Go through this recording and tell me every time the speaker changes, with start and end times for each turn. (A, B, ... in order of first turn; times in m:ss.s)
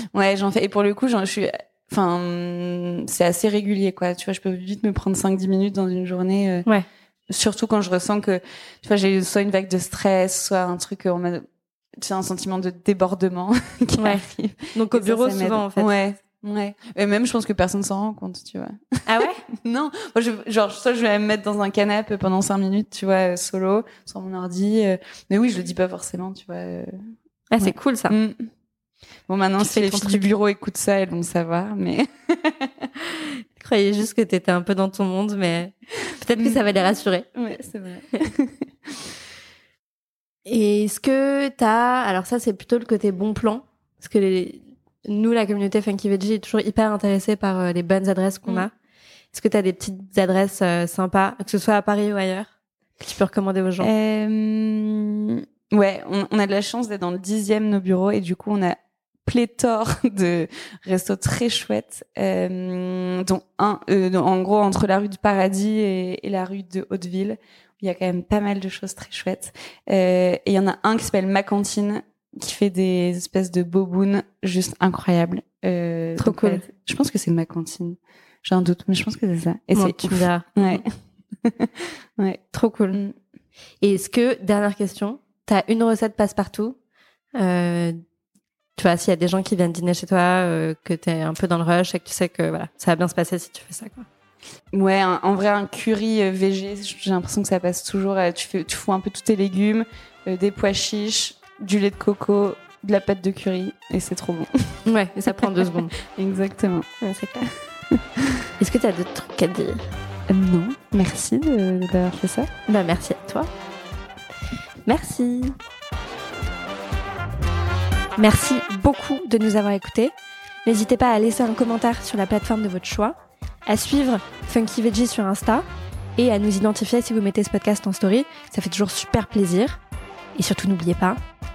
0:00.1-0:06.6 A
0:07.3-0:11.4 A
0:12.0-0:19.0 A
0:14.0-0:15.9 B
0:19.1-0:19.4 B
0:19.5-0:26.9 A
0:27.5-0:28.2 B
0:27.6-0:28.5 A
0:29.3-0:32.9 A
0:29.6-0:30.2 B
0:33.0-0:37.3 B
0:37.3-0:39.1 A
0:40.5-0:48.7 B
0:49.3-0:53.9 B
0:53.8-1:20.8 A
1:16.2-1:16.6 B
1:19.7-1:20.8 B
1:21.4-1:22.4 A
1:22.5-1:23.0 B
1:23.8-1:26.8 B
1:27.3-1:28.0 B
1:28.8-1:34.1 B
1:34.7-1:44.5 A
1:44.8-1:45.9 B
1:45.4-1:46.9 A
1:47.0-1:47.5 B
1:47.4-1:48.0 A
1:48.6-1:49.9 B
1:50.3-1:52.5 A
1:52.7-1:53.5 B
1:54.9-1:55.6 B
1:58.2-2:00.1 B
2:00.6-2:03.2 B
2:03.7-2:05.6 B
2:06.2-2:09.8 B
2:10.4-2:11.2 B